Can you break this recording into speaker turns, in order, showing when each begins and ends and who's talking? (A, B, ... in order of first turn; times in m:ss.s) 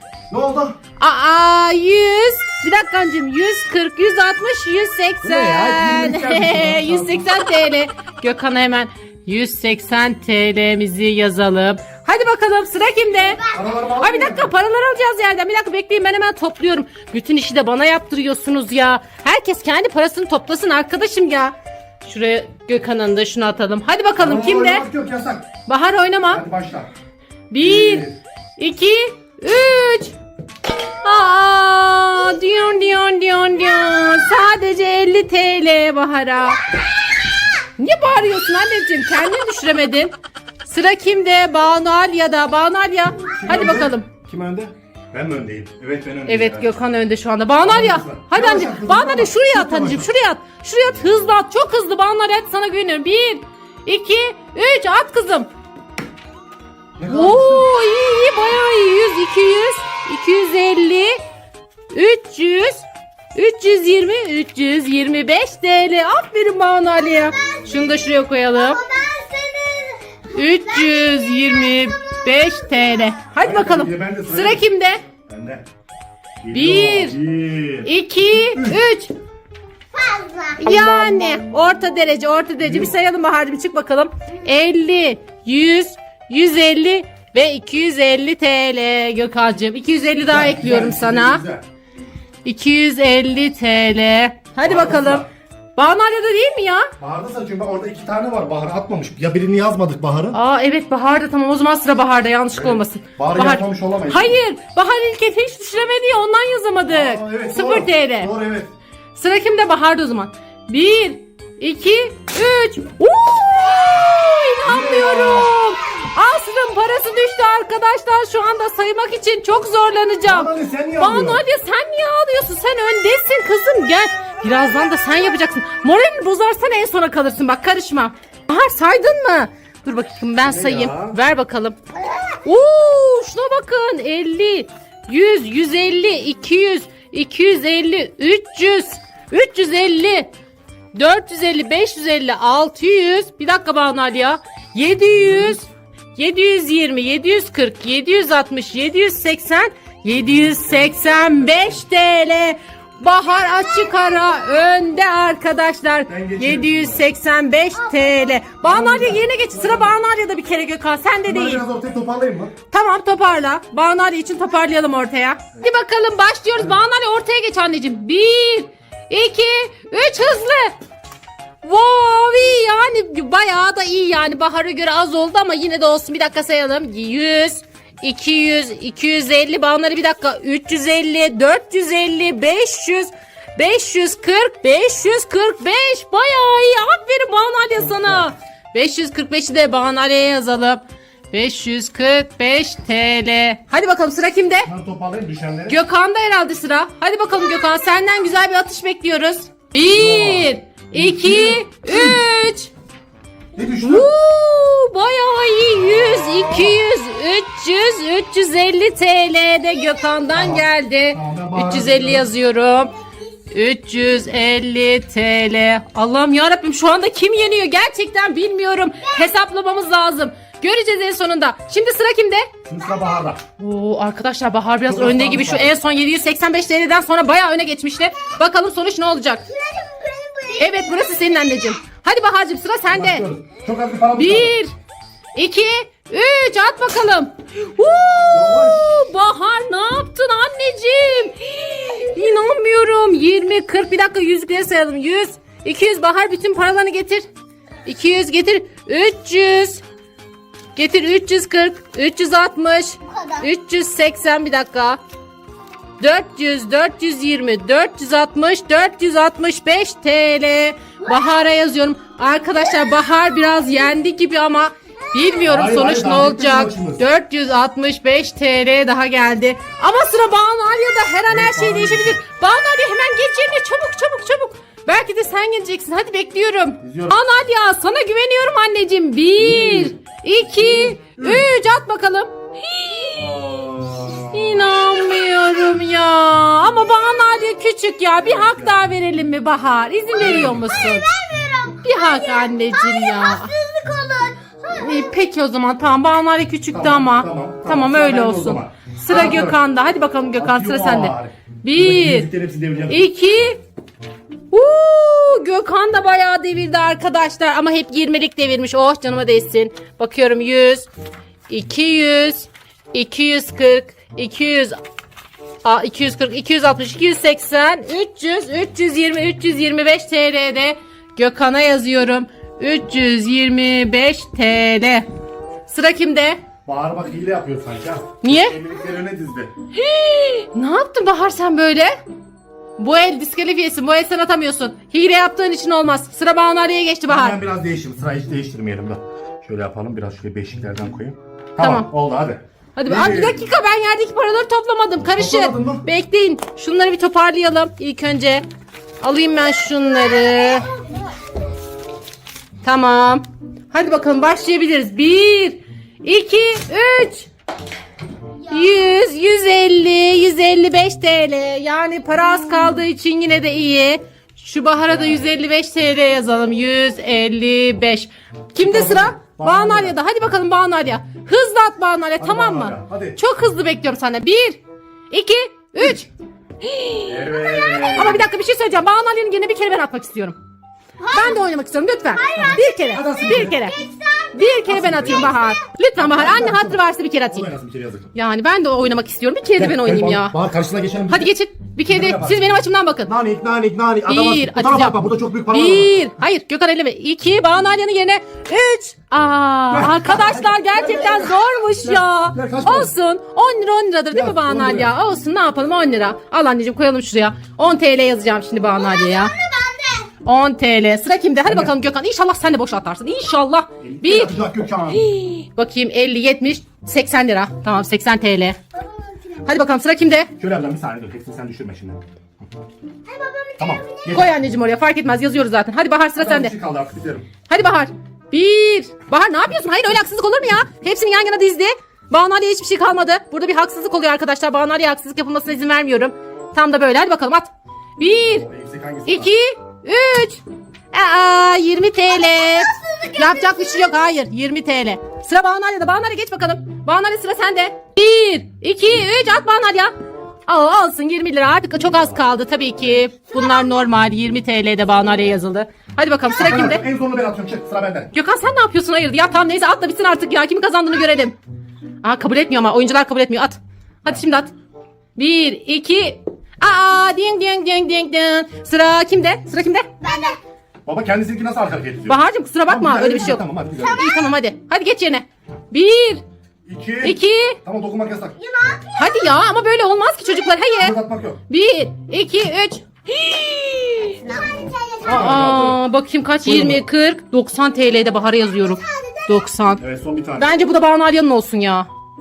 0:00.3-0:00.8 A
0:01.0-0:24.9 B
0:05.2-0:07.3 A
0:13.5-0:14.5 A
0:24.2-0:25.5 A
0:25.6-0:26.4 B
0:26.3-0:26.9 A
0:27.5-0:30.2 B
0:27.6-0:28.2 A
0:31.0-0:36.7 B
0:37.8-0:40.1 B
0:40.6-0:44.1 B
0:43.3-0:46.7 A
0:46.2-0:55.5 B
0:47.6-0:50.1 A
0:57.0-0:57.7 A
0:57.1-1:01.2 B
1:01.9-1:02.8 B
1:03.3-1:08.8 B
1:07.3-1:13.2 C
1:10.3-1:15.0 B
1:13.4-1:14.7 A
1:15.3-1:15.6 A
1:16.4-1:18.8 A
1:16.5-1:17.2 B
1:17.8-1:19.1 B
1:19.9-1:21.4 C
1:20.6-1:31.4 B
1:22.6-1:22.9 A
1:30.2-1:31.6 A
1:32.4-1:36.9 B
1:34.6-1:35.3 A
1:37.0-1:40.4 A
1:40.3-1:48.3 B
1:42.5-1:44.4 A
1:46.9-1:48.7 A
1:49.2-2:11.8 B
1:54.6-1:55.6 A
2:00.2-2:01.4 A
2:10.4-2:11.2 A
2:12.3-2:20.3 B
2:20.9-2:41.6 B
2:30.2-2:31.8 A
2:33.4-2:34.4 C
2:36.1-2:37.1 A
2:37.7-2:38.4 C
2:38.6-2:39.9 A
2:41.3-2:42.5 A
2:42.7-2:50.8 B
2:51.6-3:14.7 B
3:07.8-3:08.3 A
3:14.6-3:15.8 A
3:15.7-3:22.7 B
3:19.8-3:22.2 A
3:23.5-3:24.1 A
3:23.8-3:32.9 B
3:26.5-3:26.8 A
3:30.3-3:32.3 A
3:33.5-3:42.5 B
3:39.1-3:39.3 C
3:42.6-3:43.4 A
3:43.6-3:49.4 B
3:44.8-3:45.7 A
3:49.5-3:51.6 C
3:50.6-3:53.2 B
3:52.9-3:54.5 A
3:54.1-3:54.7 B
3:55.3-4:07.2 B
3:58.3-3:59.0 A
4:07.8-4:09.8 B
4:10.7-4:15.0 B
4:13.1-4:13.4 C
4:16.0-4:43.3 B
4:21.0-4:21.3 C
4:25.1-4:25.4 C
4:25.5-4:27.0 A
4:31.3-4:32.2 A
4:36.8-4:37.2 A
4:39.4-4:41.5 A
4:43.1-4:44.7 A
4:44.2-4:51.1 B
4:48.2-4:48.8 A
4:50.1-4:50.7 A
4:50.6-4:55.1 C
4:51.8-4:53.5 B
4:54.7-5:02.3 B
4:56.7-4:59.6 A
5:00.4-5:03.1 A
5:02.9-5:03.6 B
5:04.5-5:10.9 B
5:11.5-5:14.8 B
5:15.6-5:25.0 B
5:25.7-5:26.4 B
5:26.6-5:29.5 A
5:28.2-5:28.6 B
5:29.7-5:31.9 B
5:32.8-5:37.4 B
5:37.1-5:43.4 A
5:41.6-5:41.9 B
5:42.8-5:48.4 B
5:45.1-5:45.8 A
5:49.0-5:50.7 B
5:50.0-5:51.4 C
5:52.6-5:57.3 B
5:58.5-6:16.1 B
6:04.9-6:05.2 A
6:08.6-6:10.0 A
6:12.2-6:13.2 A
6:16.6-6:17.2 B
6:17.0-6:18.3 A
6:17.3-6:18.1 C
6:17.8-6:20.4 B
6:21.0-6:21.5 C
6:21.1-6:23.8 B
6:22.1-6:22.8 C
6:22.3-6:23.6 A
6:23.5-6:25.6 C
6:24.3-6:27.5 B
6:24.6-6:25.4 A
6:26.0-6:26.8 A
6:27.3-6:28.1 A
6:28.1-6:30.4 B
6:29.6-6:31.3 A
6:31.1-6:33.1 B
6:31.8-6:32.4 A
6:33.0-6:36.0 A
6:34.1-6:49.3 B
6:39.7-6:42.9 A
6:44.1-6:44.9 A
6:48.7-6:50.1 C
6:50.2-6:58.6 B
6:51.5-6:51.7 A
6:53.8-6:55.1 A
6:58.7-6:59.6 C
6:59.4-7:00.3 B
7:00.4-7:02.0 A
7:03.0-7:04.3 C
7:03.6-7:04.3 A
7:04.1-7:06.5 B
7:06.2-7:07.3 A
7:07.5-7:18.4 B
7:18.0-7:19.3 A
7:19.0-7:29.9 B
7:22.0-7:24.0 C
7:30.5-7:36.8 B
7:33.2-7:33.8 C
7:36.4-7:38.1 A
7:38.1-7:41.4 B
7:42.0-7:44.5 B
7:45.2-7:49.9 B
7:50.0-7:50.4 C
7:50.8-7:54.0 A
7:52.0-7:56.2 B
7:53.8-7:54.2 C
7:56.6-7:58.4 A
7:57.0-7:57.6 B
7:58.4-7:59.4 C
7:58.9-8:00.9 B
8:00.8-8:01.4 A
8:01.5-8:04.2 B
8:04.2-8:05.6 C
8:04.6-8:05.8 A
8:05.0-8:09.8 B
8:06.4-8:06.8 A
8:08.0-8:09.5 C
8:09.8-8:10.6 A
8:10.4-8:11.9 B